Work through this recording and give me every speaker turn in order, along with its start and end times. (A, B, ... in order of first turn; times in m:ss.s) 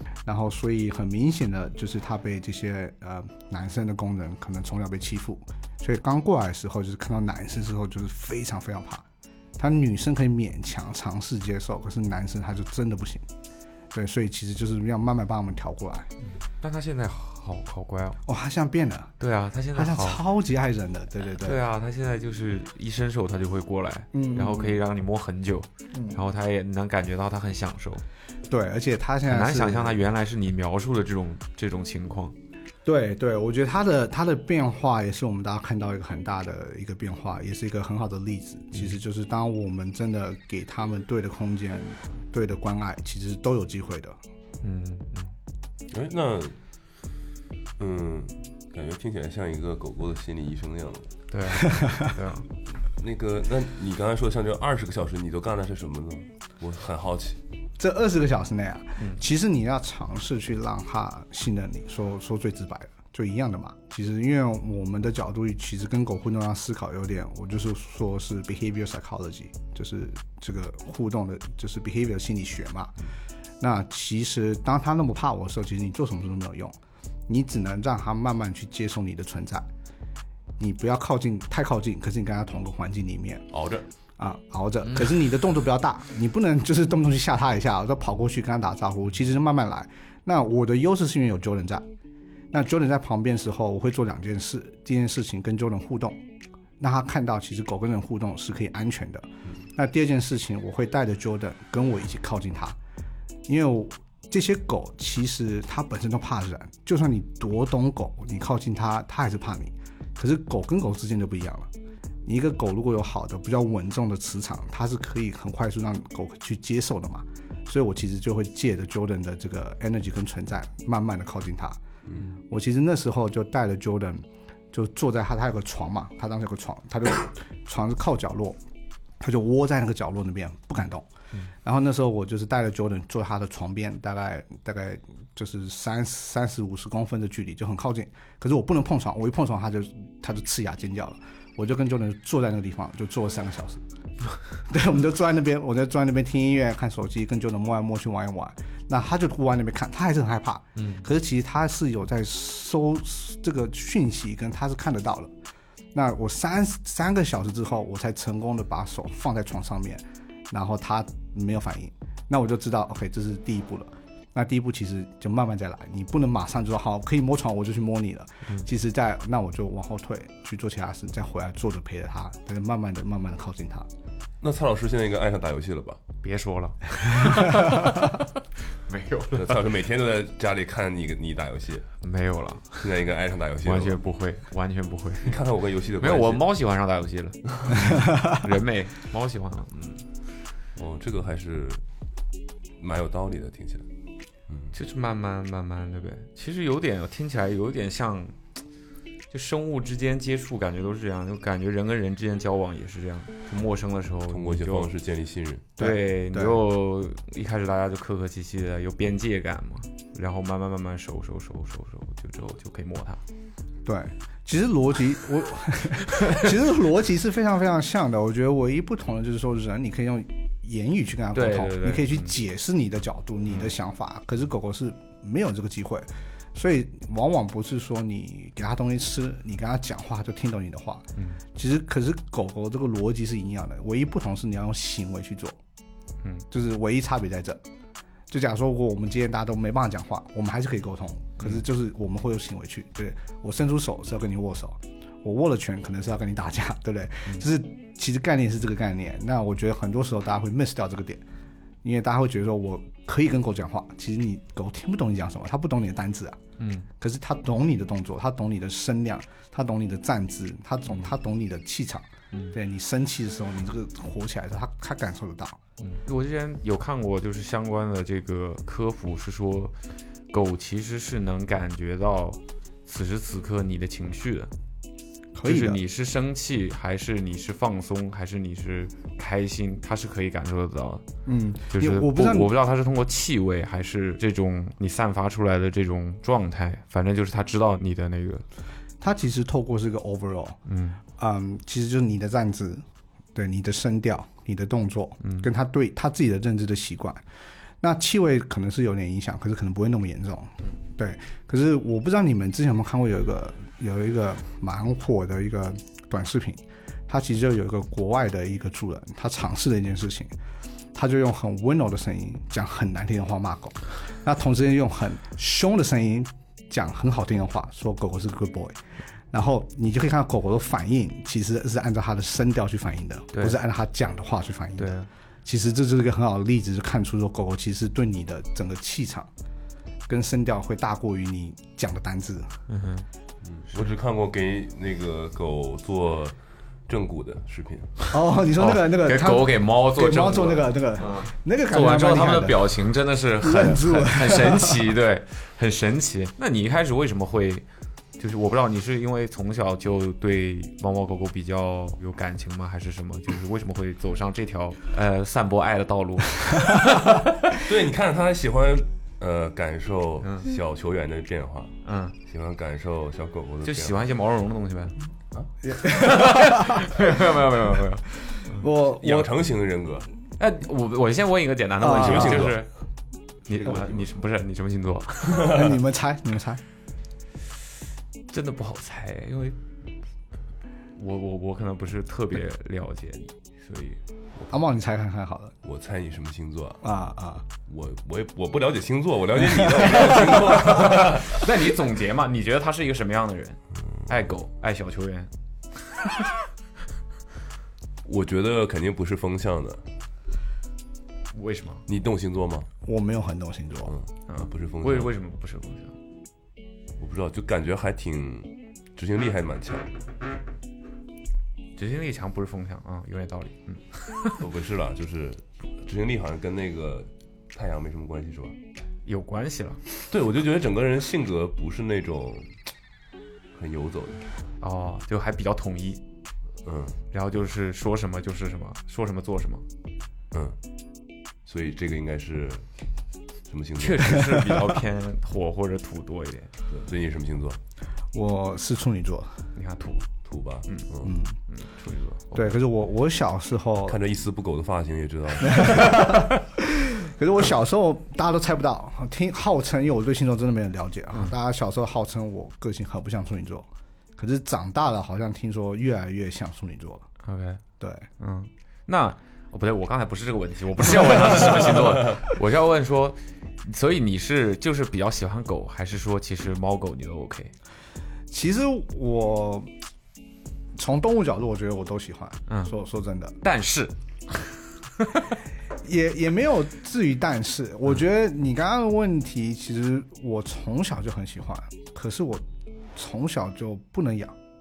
0:00.3-0:09.0 A
0:09.6-0:13.3 A
0:13.9-0:16.1 A
0:16.3-0:18.2 B
0:18.2-0:19.1 A
0:19.2-0:20.2 B
0:19.8-0:21.6 A
0:21.4-0:28.0 B
0:24.1-0:24.8 A
0:25.9-0:26.2 A
0:28.5-0:30.0 A
0:29.3-0:32.4 B
0:32.8-0:44.2 A
0:44.6-0:45.3 B
0:45.9-0:46.6 C
0:47.8-0:51.1 C
0:51.3-0:52.5 B
0:51.7-0:52.1 A
0:52.8-0:57.4 C
0:57.8-1:13.0 A
1:13.6-1:16.8 A
1:17.3-1:19.7 A
1:20.6-1:23.5 A
1:23.5-1:23.9 C
1:24.2-1:31.8 A
1:32.5-1:36.2 A
1:36.8-1:42.8 A
1:43.5-1:51.7 A
1:52.2-2:01.8 A
2:02.4-2:08.6 A
2:09.2-2:11.1 A
2:11.6-2:23.8 A
2:24.6-2:35.3 A
2:30.8-2:31.0 B
2:35.9-2:53.9 A
2:54.4-2:56.0 C
2:56.2-2:59.6 B
2:59.3-3:01.9 C
3:02.0-3:02.9 B
3:02.8-3:04.0 C
3:03.6-3:05.4 B
3:05.2-3:06.5 C
3:06.0-3:10.0 B
3:10.8-3:11.8 C
3:12.8-3:13.9 C
3:14.5-3:14.7 C
3:14.7-3:18.4 B
3:19.3-3:24.9 B
3:24.3-3:25.7 C
3:25.8-3:26.6 A
3:25.8-3:33.2 B
3:33.8-3:55.6 A
3:36.1-3:36.5 B
3:41.3-3:42.3 B
3:51.2-3:51.4 B
3:56.5-3:57.6 A
3:58.3-4:11.2 A
4:11.8-4:16.4 A
4:16.6-4:16.9 B
4:17.0-4:25.6 A
4:25.8-4:29.8 B
4:30.3-4:34.5 B
4:35.3-4:35.8 A
4:35.4-4:41.1 B
4:41.2-4:42.5 A
4:41.7-4:48.4 B
4:49.0-4:50.6 A
4:50.7-4:51.0 B
4:51.2-4:57.2 A
4:55.2-4:55.5 B
4:57.8-5:10.3 A
5:10.9-5:18.8 A
5:19.3-5:29.3 A
5:23.3-5:23.6 B
5:24.8-5:25.1 B
5:30.1-5:32.6 A
5:32.7-5:33.1 B
5:33.4-5:36.4 C
5:36.9-5:38.1 C
5:38.1-5:42.8 A
5:38.6-5:47.7 B
5:43.4-5:44.9 A
5:48.2-5:57.2 B
5:57.5-6:04.0 C
6:00.2-6:00.5 B
6:01.8-6:02.2 B
6:03.6-6:05.0 B
6:05.6-6:07.0 A
6:05.9-6:08.6 B
6:08.4-6:09.3 A
6:08.7-6:10.1 C
6:10.4-6:12.7 B
6:11.8-6:12.5 A
6:11.9-6:12.6 C
6:13.5-6:15.6 B
6:13.6-6:14.0 C
6:15.4-6:15.6 C
6:15.4-6:16.6 A
6:18.3-6:19.6 B
6:21.0-6:24.0 B
6:24.5-6:25.6 A
6:25.6-6:26.8 C
6:26.8-6:27.5 A
6:27.7-6:31.5 C
6:30.0-6:36.3 B
6:38.0-6:39.8 C
6:41.3-6:41.8 B
6:41.9-6:42.7 C
6:42.8-6:44.0 A
6:43.9-6:45.1 C
6:44.3-6:45.9 B
6:47.0-6:50.0 C
6:51.8-6:54.4 B
6:54.4-6:58.6 C
6:59.1-6:59.8 B
7:00.1-7:02.5 C
7:03.6-7:04.3 C
7:04.6-7:06.0 B
7:06.6-7:07.0 C
7:07.1-7:09.6 B
7:10.3-7:10.6 C
7:11.5-7:12.6 C
7:13.5-7:14.6 C
7:13.8-7:16.5 B
7:16.7-7:17.6 C
7:18.1-7:19.5 A
7:19.6-7:20.1 B
7:20.2-7:21.1 C
7:21.0-7:21.4 A
7:21.5-7:22.6 B
7:22.3-7:24.0 A
7:23.9-7:26.3 C
7:25.4-7:37.1 A
7:37.2-7:37.6 B
7:37.8-7:38.1 A
7:38.2-7:47.5 B
7:48.3-7:49.7 A
7:50.7-7:53.4 A
7:52.5-7:52.7 B
7:53.4-7:55.3 B
7:55.8-8:04.4 A